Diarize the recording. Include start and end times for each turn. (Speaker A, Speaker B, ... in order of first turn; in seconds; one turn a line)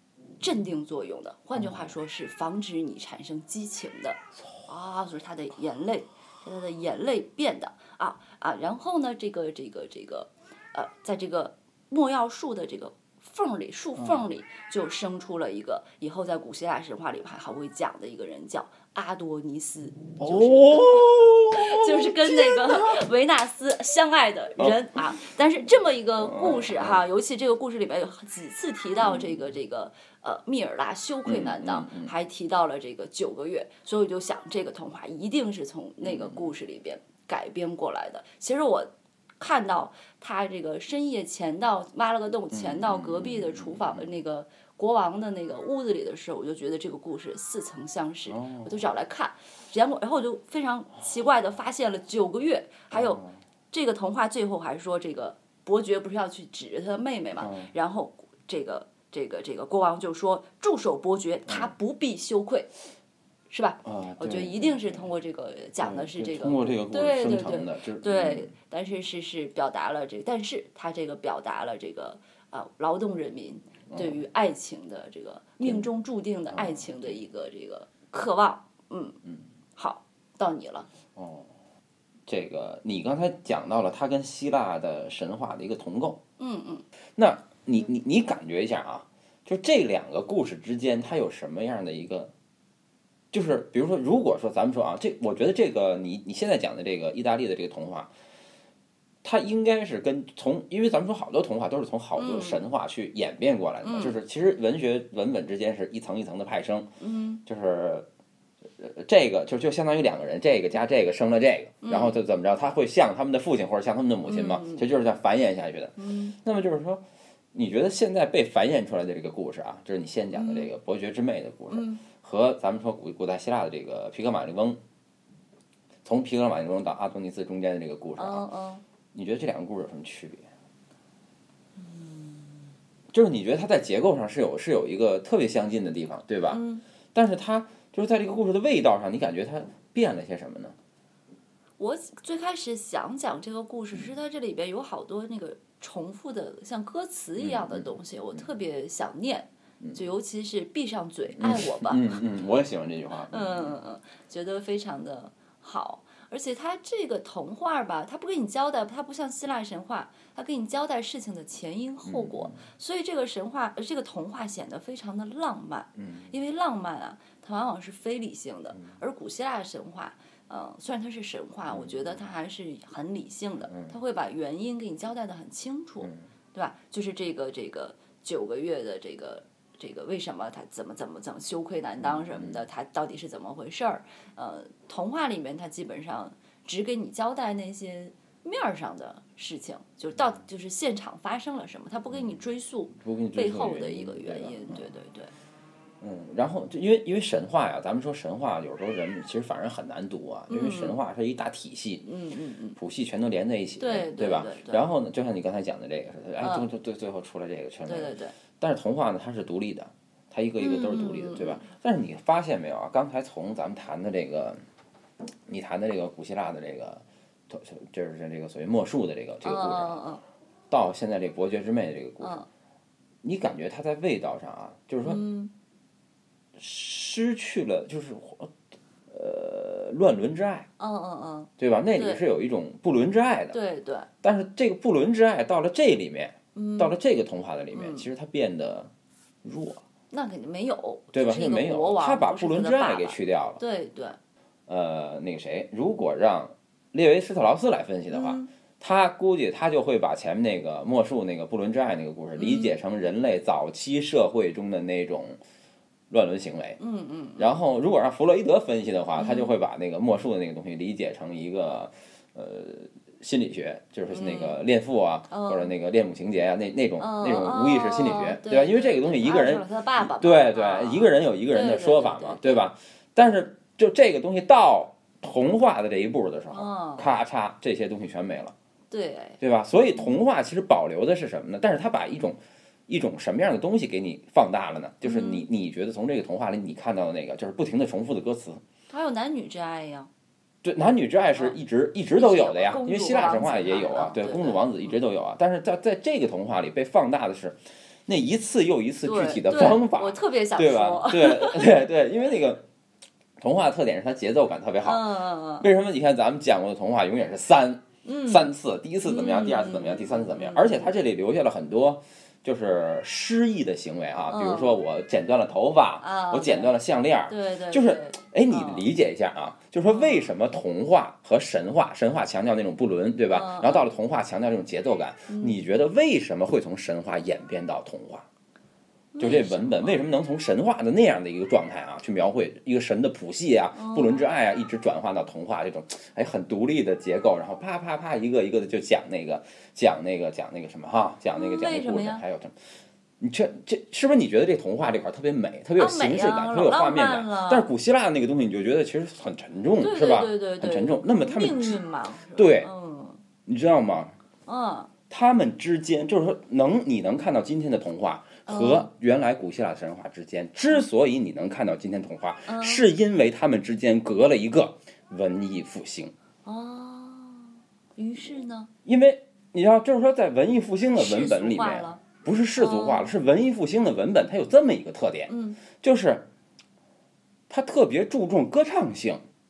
Speaker A: 0.4-62.7
Speaker B: 1.6-1.9
Speaker B: 20.2-23.0
Speaker B: 26.2-27.0
Speaker B: 31.2-32.1
Speaker B: 36.0-36.5
Speaker B: 42.5-44.1
Speaker B: 48.3-48.7
Speaker B: 52.9-53.4
Speaker B: 57.4-57.7
Speaker A: 63.5-79.2
Speaker B: 63.8-65.1
Speaker B: 65.8-68.5
Speaker B: 73.9-74.2
Speaker B: 76.5-77.2
Speaker A: 79.8-80.9
Speaker B: 81.2-81.5
Speaker B: 82.3-86.2
Speaker A: 86.4-86.8
Speaker B: 87.2-92.3
Speaker B: 93.3-98.1
Speaker B: 99.2-106.9
Speaker A: 102.2-102.7
Speaker A: 103.8-104.2
Speaker A: 107.0-107.4
Speaker B: 107.4-108.1
Speaker B: 108.8-124.8
Speaker A: 111.8-112.2
Speaker A: 114.2-114.8
Speaker A: 116.0-116.3
Speaker A: 120.3-120.7
Speaker A: 121.7-122.0
Speaker B: 126.0-128.4
Speaker A: 128.2-128.8
Speaker B: 129.1-130.5
Speaker A: 131.8-132.6
Speaker B: 133.1-136.6
Speaker A: 136.5-136.8
Speaker B: 137.1-140.8
Speaker A: 141.8-152.1
Speaker B: 147.4-147.9
Speaker B: 151.3-153.8
Speaker A: 153.3-195.3
Speaker B: 162.0-162.7
Speaker B: 166.0-166.3
Speaker B: 171.7-172.2
Speaker B: 173.7-173.9
Speaker B: 182.0-182.6
Speaker B: 193.0-194.9
Speaker B: 196.0-202.1
Speaker A: 200.5-201.0
Speaker A: 202.0-202.8
Speaker B: 202.8-214.6
Speaker A: 203.8-204.8
Speaker A: 206.4-206.7
Speaker A: 207.8-208.3
Speaker A: 210.6-211.6
Speaker B: 215.5-220.1
Speaker A: 219.4-220.2
Speaker B: 220.7-222.4
Speaker A: 222.2-222.5
Speaker B: 223.2-225.3
Speaker A: 225.0-225.5
Speaker B: 226.6-228.5
Speaker B: 229.1-230.7
Speaker A: 230.8-232.2
Speaker B: 231.6-233.6
Speaker A: 233.5-234.1
Speaker B: 234.2-238.9
Speaker A: 236.5-236.9
Speaker A: 237.7-238.1
Speaker B: 239.4-239.8
Speaker A: 240.1-244.2
Speaker B: 241.1-243.6
Speaker B: 244.7-255.4
Speaker A: 248.1-248.5
Speaker A: 252.3-252.8
Speaker B: 256.1-256.8
Speaker A: 256.8-257.5
Speaker B: 257.4-278.5
Speaker A: 259.2-259.5
Speaker A: 264.1-264.6
Speaker A: 265.3-265.7
Speaker A: 267.0-272.5
Speaker A: 276.5-277.1
Speaker A: 278.9-280.1
Speaker B: 279.4-288.6
Speaker A: 285.0-285.5
Speaker A: 288.9-290.1
Speaker B: 290.6-302.6
Speaker A: 292.1-295.0
Speaker A: 299.0-301.9
Speaker B: 303.4-328.3
Speaker A: 304.8-305.7
Speaker A: 308.0-308.5
Speaker A: 309.0-310.9
Speaker A: 314.3-314.8
Speaker A: 316.0-316.7
Speaker A: 317.3-318.9
Speaker A: 319.8-320.3
Speaker A: 323.3-323.9
Speaker A: 325.3-325.6
Speaker A: 329.1-330.0
Speaker B: 329.2-342.6
Speaker A: 333.7-334.3
Speaker A: 341.3-342.2
Speaker B: 343.2-351.8
Speaker A: 345.8-347.7
Speaker A: 349.8-353.2
Speaker B: 352.3-352.7
Speaker B: 353.4-354.1
Speaker A: 354.5-354.9
Speaker B: 355.1-366.1
Speaker A: 358.4-358.9
Speaker A: 362.4-362.9
Speaker A: 366.4-368.7
Speaker B: 368.8-376.3
Speaker A: 370.9-372.0
Speaker A: 372.6-373.2
Speaker A: 375.3-375.6
Speaker B: 377.5-379.2